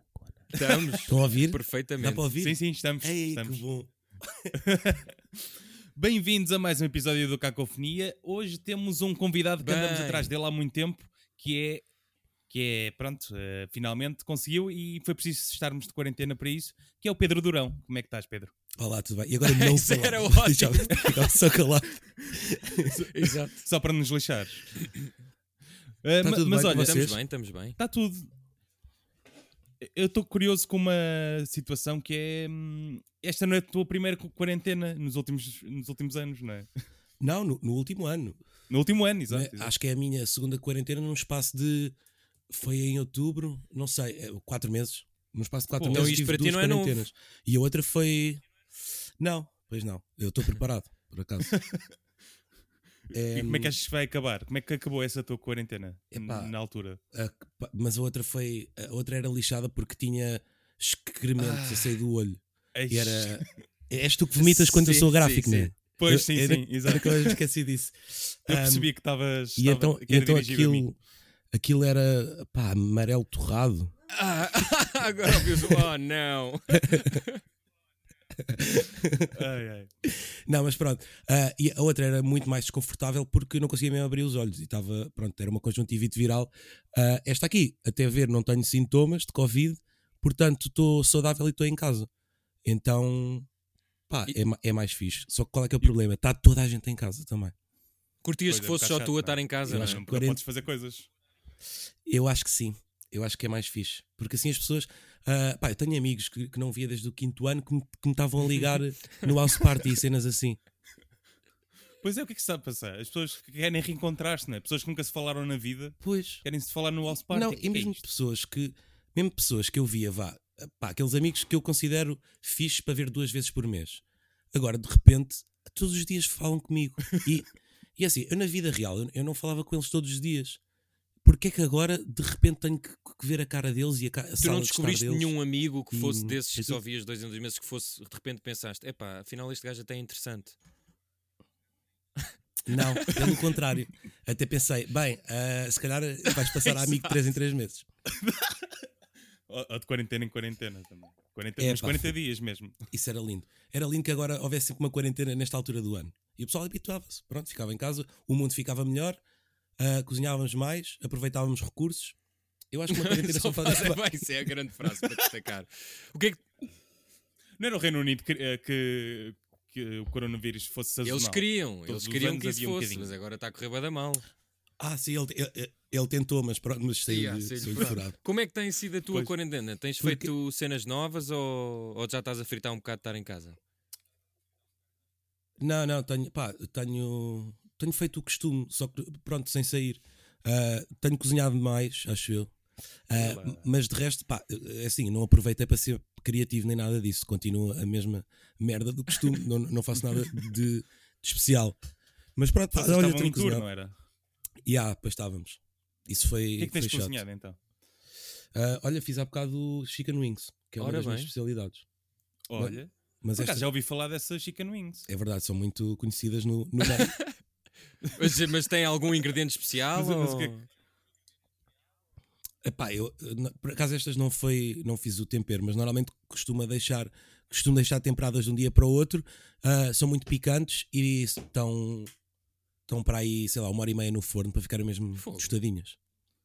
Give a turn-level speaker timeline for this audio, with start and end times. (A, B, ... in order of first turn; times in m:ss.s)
0:00.5-0:02.3 A
0:00.5-0:01.0 B
0:01.0-0:04.6 C
0:02.4-0:03.6 B
0:04.5-0:05.2 B
0:06.0-0:11.8 B
0:09.6-0:10.3 A
0:12.5-0:18.5 B
0:18.8-0:23.1 C
0:19.4-0:21.4 A
0:23.0-0:23.7 A
0:23.6-0:24.7 B
0:24.8-0:25.1 A
0:26.0-0:27.2 B
0:26.2-0:27.2 C
0:26.7-0:27.8 A
0:27.8-0:28.3 B
0:29.8-0:36.7 B
0:37.2-0:38.4 C
0:38.7-0:39.7 B
0:39.3-0:42.0 C
0:42.5-0:48.4 C
0:45.8-0:46.2 B
0:45.9-0:47.1 A
0:49.2-0:51.6 C
0:51.5-0:51.9 B
0:53.1-0:53.8 C
0:53.3-0:57.0 B
0:56.1-0:56.5 C
0:57.1-1:08.9 C
1:01.4-1:02.0 A
1:02.8-1:03.6 B
1:04.4-1:05.7 A
1:06.0-1:07.4 B
1:08.5-1:10.9 B
1:09.6-1:11.0 C
1:11.5-1:13.9 C
1:14.1-1:17.4 A
1:15.3-1:15.8 C
1:16.7-1:17.2 C
1:18.4-1:19.4 C
1:19.3-1:19.9 B
1:20.0-1:32.1 C
1:32.6-1:33.5 C
1:34.1-1:37.6 C
1:38.2-1:40.0 A
1:38.5-1:41.1 B
1:39.7-1:40.4 C
1:42.1-1:50.6 C
1:52.0-1:58.0 B
1:56.0-1:56.4 C
1:57.3-2:10.6 C
2:11.2-2:15.3 C
2:14.4-2:20.6 A
2:15.9-2:16.8 C
2:22.6-2:27.9 C
2:22.7-2:23.5 A
2:26.5-2:27.2 A
2:28.2-2:28.7 B
2:29.5-2:32.9 B
2:31.6-2:32.2 C
2:32.9-2:39.2 C
2:39.8-2:42.2 C
2:42.7-2:44.5 C
2:42.9-2:46.4 A
2:47.6-2:53.1 B
2:51.0-2:54.3 A
2:54.8-2:58.2 C
2:57.1-3:03.6 A
3:00.0-3:00.3 C
3:05.6-3:12.5 C
3:13.1-3:21.8 C
3:13.1-3:13.7 B
3:22.4-3:23.7 C
3:22.7-3:23.9 B
3:24.6-3:27.2 C
3:26.6-3:27.6 B
3:28.5-3:31.8 C
3:30.8-3:31.3 A
3:32.5-3:35.1 B
3:32.6-3:33.7 C
3:35.1-3:37.2 C
3:36.8-3:37.4 A
3:38.0-3:40.7 A
3:39.9-3:40.5 B
3:42.6-3:52.1 C
3:52.9-3:56.0 C
3:55.2-3:55.6 A